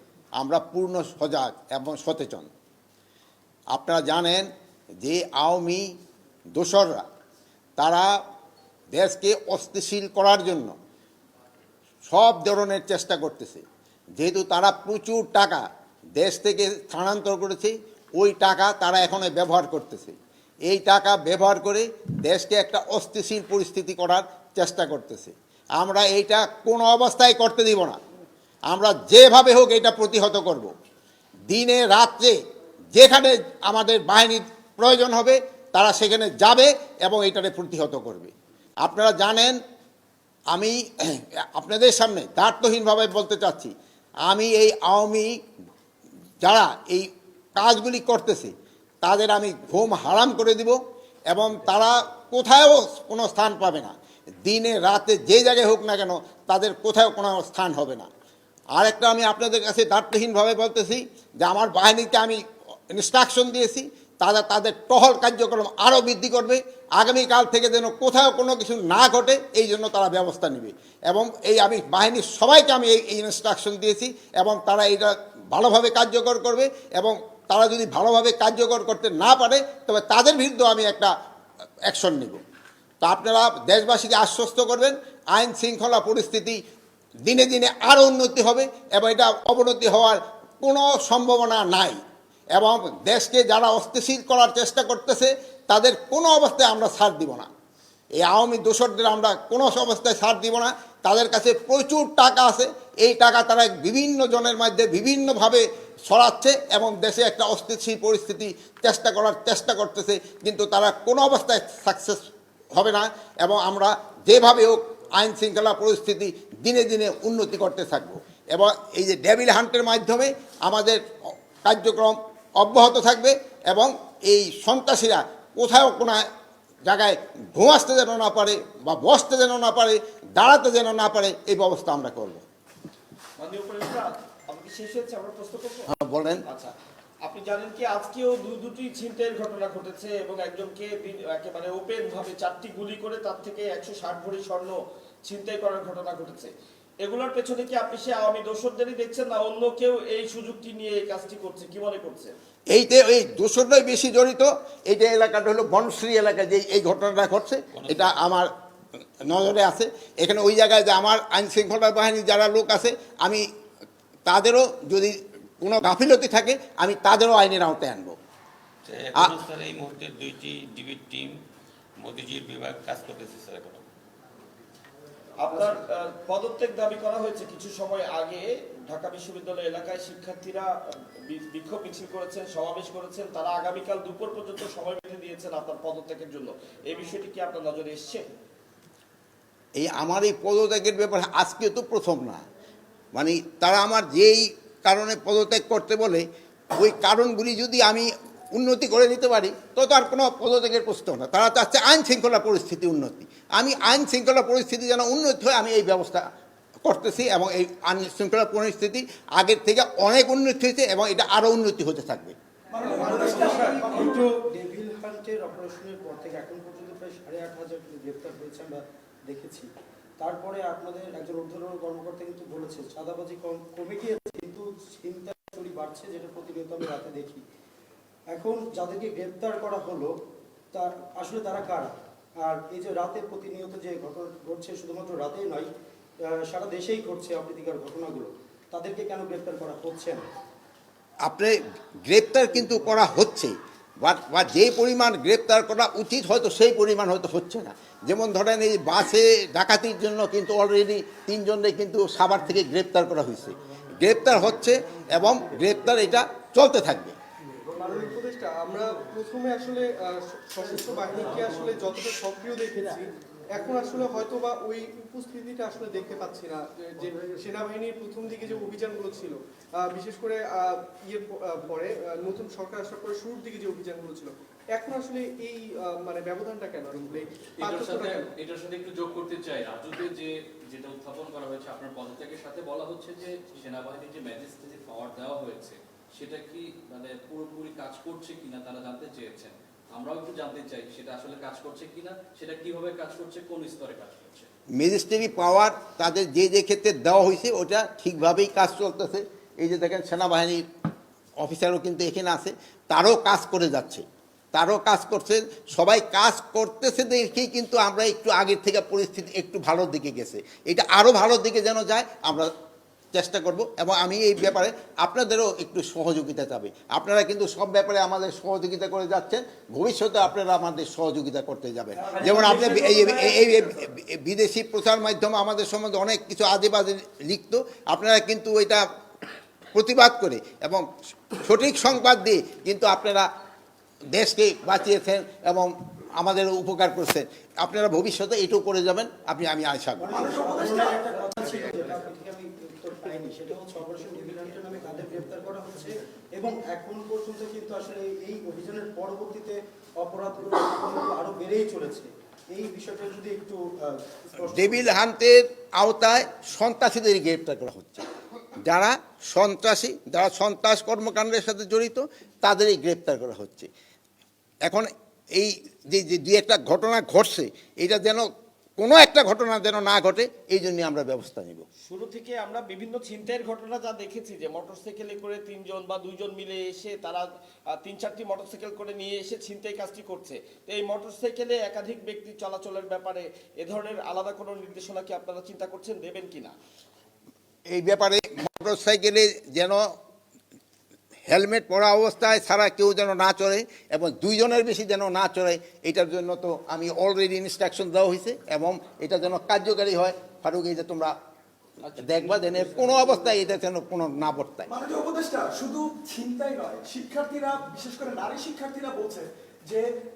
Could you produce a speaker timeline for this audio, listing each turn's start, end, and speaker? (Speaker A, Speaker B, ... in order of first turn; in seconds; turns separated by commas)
Speaker A: 0.4-2.5, Speaker A: 3.7-4.5, Speaker A: 5.0-5.9, Speaker A: 6.6-7.0, Speaker A: 7.8-8.1, Speaker A: 8.9-10.7, Speaker A: 12.1-13.6, Speaker A: 14.2-15.7, Speaker A: 16.2-20.2, Speaker A: 20.7-28.0, Speaker A: 28.7-30.7, Speaker A: 31.5-32.4, Speaker A: 33.0-38.3, Speaker A: 38.8-39.6, Speaker A: 40.5-43.7, Speaker A: 44.3-45.3, Speaker A: 46.4-48.5, Speaker A: 49.0-50.8, Speaker A: 51.3-53.9, Speaker A: 54.5-58.1, Speaker A: 58.8-62.4, Speaker A: 62.9-81.1, Speaker A: 81.9-82.4, Speaker A: 83.0-86.6, Speaker A: 87.2-92.0, Speaker A: 92.6-97.5, Speaker A: 98.2-112.2, Speaker A: 112.8-121.0, Speaker A: 121.6-126.2, Speaker A: 126.9-132.4, Speaker B: 133.4-135.9, Speaker A: 135.9-136.4, Speaker B: 136.4-152.3, Speaker A: 152.7-158.5, Speaker C: 157.8-158.1, Speaker A: 159.2-163.4, Speaker A: 164.3-168.2, Speaker C: 168.8-171.4, Speaker C: 172.0-173.8, Speaker B: 175.4-188.2, Speaker A: 189.8-192.4, Speaker A: 193.2-206.2, Speaker A: 206.8-212.3, Speaker D: 212.7-214.2, Speaker E: 212.9-219.7, Speaker E: 220.2-227.4, Speaker E: 228.3-230.1, Speaker E: 230.7-231.9, Speaker E: 232.4-235.7, Speaker E: 236.3-240.2, Speaker A: 241.3-241.6, Speaker A: 242.1-257.2, Speaker F: 257.8-278.3, Speaker G: 277.6-294.5, Speaker A: 294.8-300.6, Speaker A: 301.4-312.5, Speaker A: 313.1-328.8, Speaker D: 322.0-323.7, Speaker A: 329.7-333.3, Speaker A: 334.1-340.1, Speaker E: 340.0-354.8, Speaker D: 340.1-341.7, Speaker A: 354.5-358.1, Speaker A: 358.6-363.7, Speaker A: 364.7-371.6, Speaker B: 371.8-386.6, Speaker A: 387.7-389.8, Speaker A: 391.3-401.1, Speaker A: 401.9-404.7, Speaker B: 402.0-402.4, Speaker D: 404.7-409.9